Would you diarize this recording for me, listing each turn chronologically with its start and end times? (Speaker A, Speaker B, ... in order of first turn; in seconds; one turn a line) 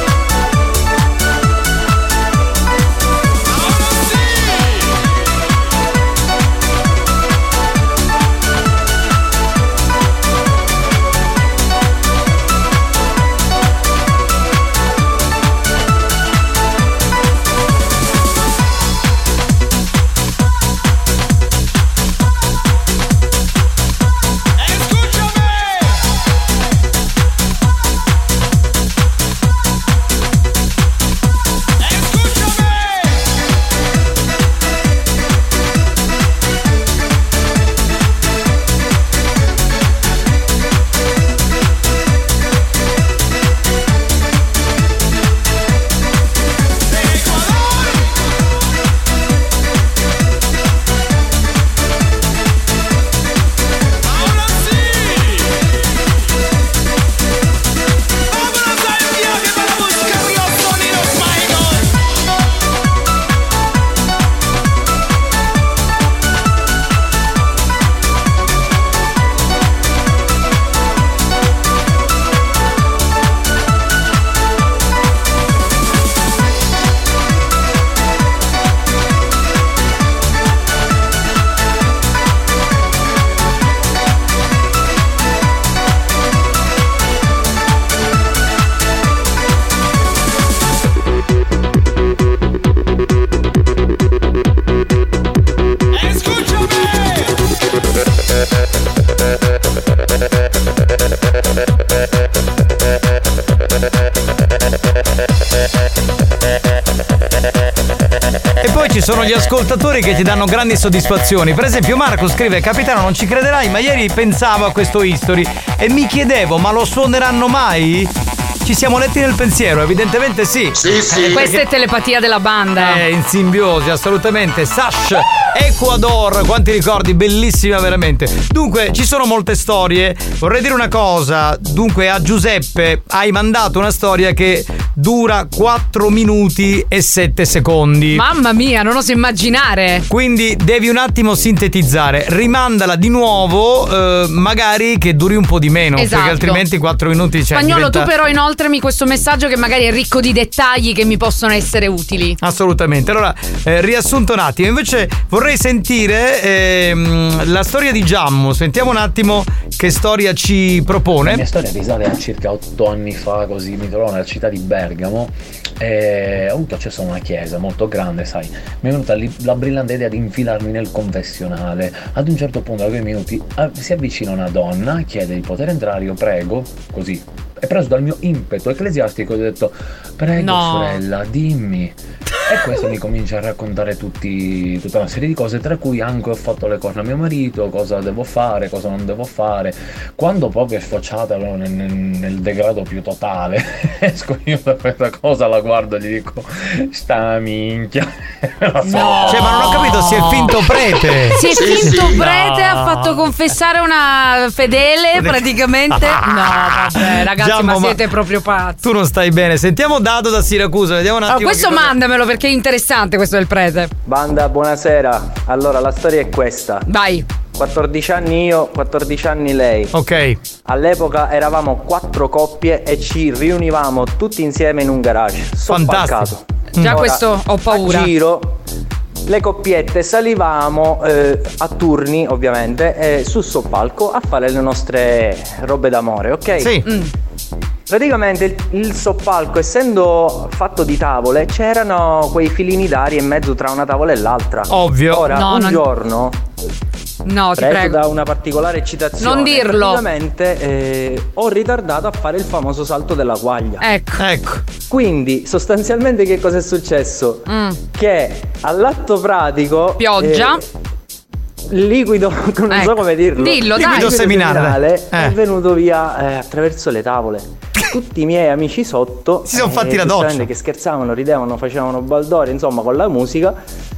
Speaker A: 108.6-118.1
Speaker A: 118.6-121.6
Speaker B: 121.2-123.0
Speaker A: 122.8-138.2
Speaker B: 138.1-140.1
Speaker A: 140.1-148.1
Speaker B: 146.0-146.6
Speaker B: 147.5-152.4
Speaker A: 152.4-161.4
Speaker C: 161.2-199.5
Speaker B: 180.4-181.0
Speaker B: 198.8-200.6
Speaker A: 199.3-203.3
Speaker B: 201.3-208.8
Speaker A: 205.2-208.0
Speaker A: 208.8-211.9
Speaker B: 211.3-213.9
Speaker D: 214.1-216.9
Speaker B: 216.9-217.3
Speaker D: 217.6-219.9
Speaker A: 219.9-220.4
Speaker D: 220.7-228.6
Speaker A: 225.7-227.0
Speaker B: 226.8-228.1
Speaker D: 229.3-236.8
Speaker A: 236.6-236.9
Speaker D: 237.9-246.4
Speaker A: 244.7-245.3
Speaker B: 245.3-245.8
Speaker B: 247.3-248.0
Speaker D: 247.6-253.9
Speaker B: 249.2-250.0
Speaker B: 253.8-254.2
Speaker A: 254.2-254.7
Speaker D: 254.9-260.6
Speaker B: 257.5-257.8
Speaker B: 260.0-260.6
Speaker D: 261.7-273.6
Speaker B: 262.7-264.2
Speaker A: 263.7-265.4
Speaker A: 269.5-270.5